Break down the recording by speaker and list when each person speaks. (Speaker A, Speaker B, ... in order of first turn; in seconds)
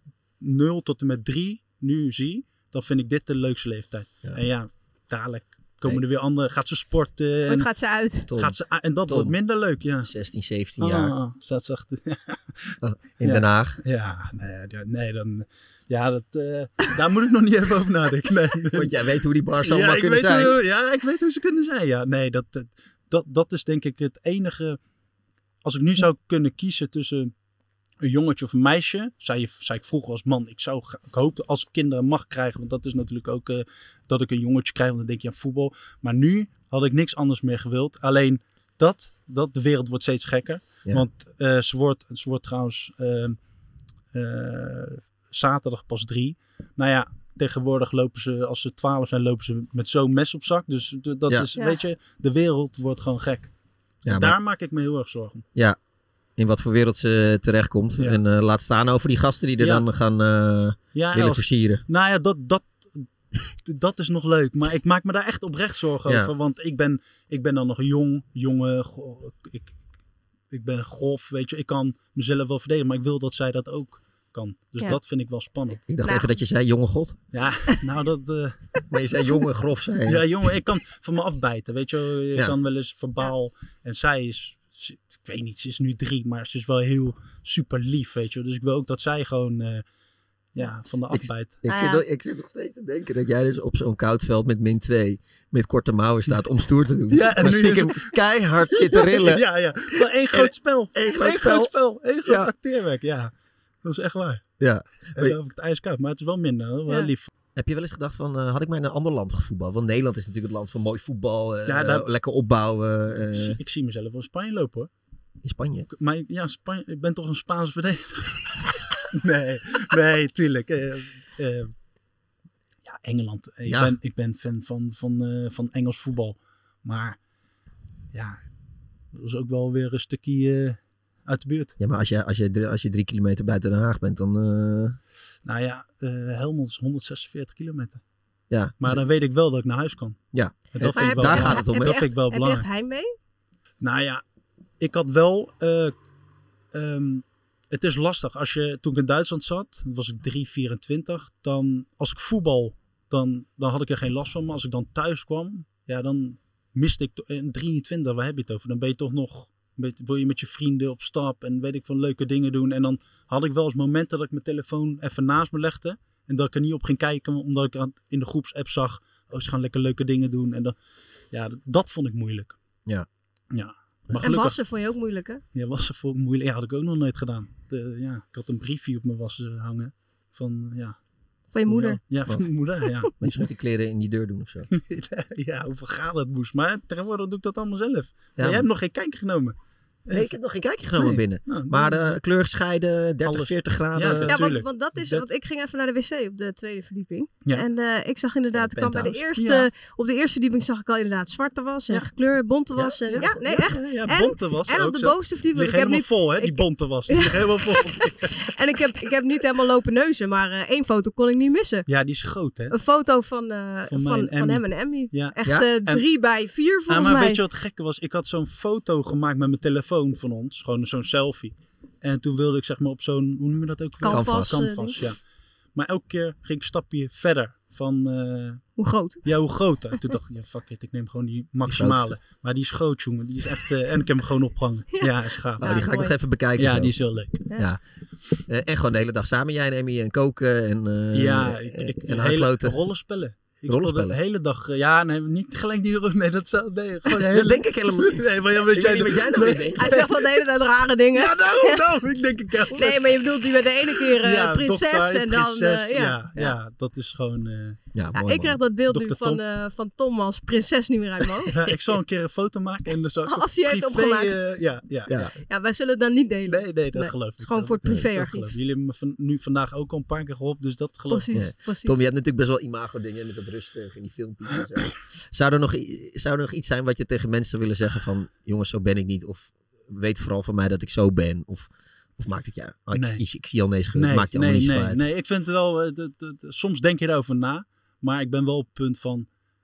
Speaker A: 0.4-7.7, 8.3-10.1, 10.8-18.9, 19.6-24.8, 25.6-27.3, 28.0-43.4, 44.1-53.5, 54.0-55.5, 59.6-59.8, 60.9-69.7, 70.5-75.8, 77.3-78.9, 80.0-89.8, 90.5-91.6, 97.1-98.2, 98.7-103.3, 103.8-104.5, 105.2-107.3, 111.7-112.1, 113.3-114.9, 115.9-121.7, 122.8-127.2, 128.1-128.4, 129.1-131.7, 135.4-138.0, 138.8-140.2, 140.7-142.7, 143.8-144.2, 144.8-145.9, 146.7-170.7, 171.3-172.6, 173.5-174.6, 175.5-181.0, 181.7-183.3, 184.7-189.5, 190.1-190.3, 191.0-192.2, 193.2-195.3, 199.3-199.7, 202.8-208.5, 211.9-212.7, 213.9-216.0, 216.9-225.2, 225.7-228.7, 229.2-235.8, 236.6-237.5, 241.1-250.3, 251.1-257.8, 258.9-259.4, 261.5-265.2, 266.5-271.4, 282.9-283.2, 283.9-289.3
Speaker B: 7.5-8.3, 76.0-76.3, 91.7-92.0, 140.9-143.1, 174.2-175.4, 181.5-182.0, 194.3-211.8, 212.7-217.4, 224.0-224.9, 228.8-229.2, 235.6-236.1, 249.8-251.8, 252.7-256.6, 258.1-261.6, 263.2-264.4, 265.5-268.5, 271.1-271.9
Speaker C: 8.3-9.3, 10.0-11.1, 12.8-13.8, 18.7-20.6, 54.0-54.4, 56.4-61.8, 66.0-66.3, 75.8-77.2, 78.9-80.6, 91.1-102.5, 104.6-105.4, 107.5-113.6, 115.4-115.9, 123.7-124.0, 131.8-135.0, 138.5-139.0, 140.3-142.0, 183.2-184.7, 188.4-188.7, 190.1-194.5, 198.5-199.2, 202.8-203.7, 224.1-224.6, 231.7-232.2, 235.6-236.9, 238.5-242.8, 243.7-244.2, 247.1-250.1, 257.9-258.6, 265.1-265.3, 271.3-285.0